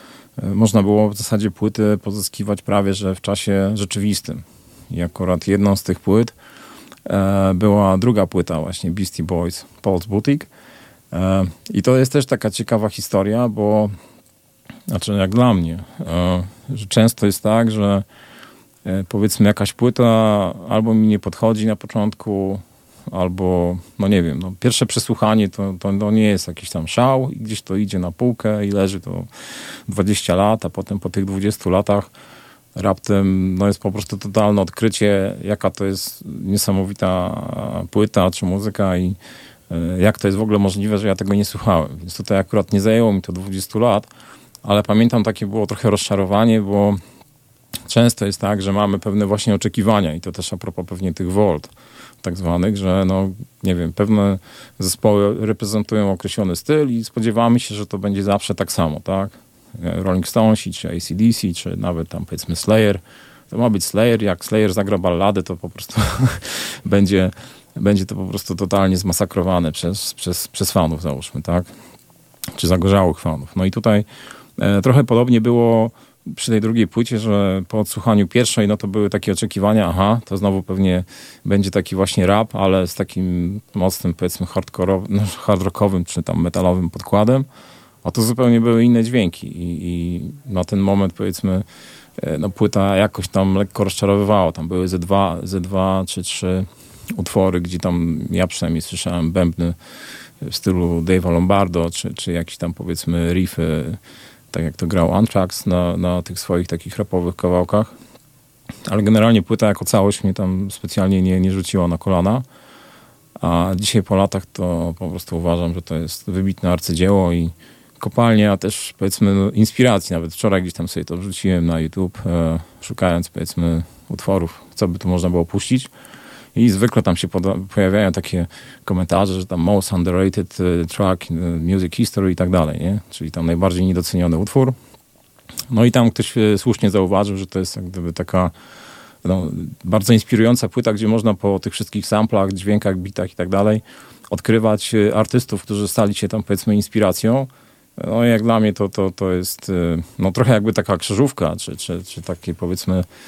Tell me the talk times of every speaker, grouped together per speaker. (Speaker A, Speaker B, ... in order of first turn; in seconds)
Speaker A: 0.4-6.3, 7.0-10.5, 11.1-13.9, 14.9-18.0, 18.8-29.3, 29.9-32.1, 32.7-39.2, 39.7-44.1, 44.6-47.0, 47.9-51.7, 52.2-71.7, 72.5-74.0, 74.6-87.5, 88.0-91.7, 92.2-99.8, 100.4-104.0, 104.5-107.9, 108.8-112.4, 113.4-125.9, 126.5-134.8, 135.7-138.5, 139.2-153.1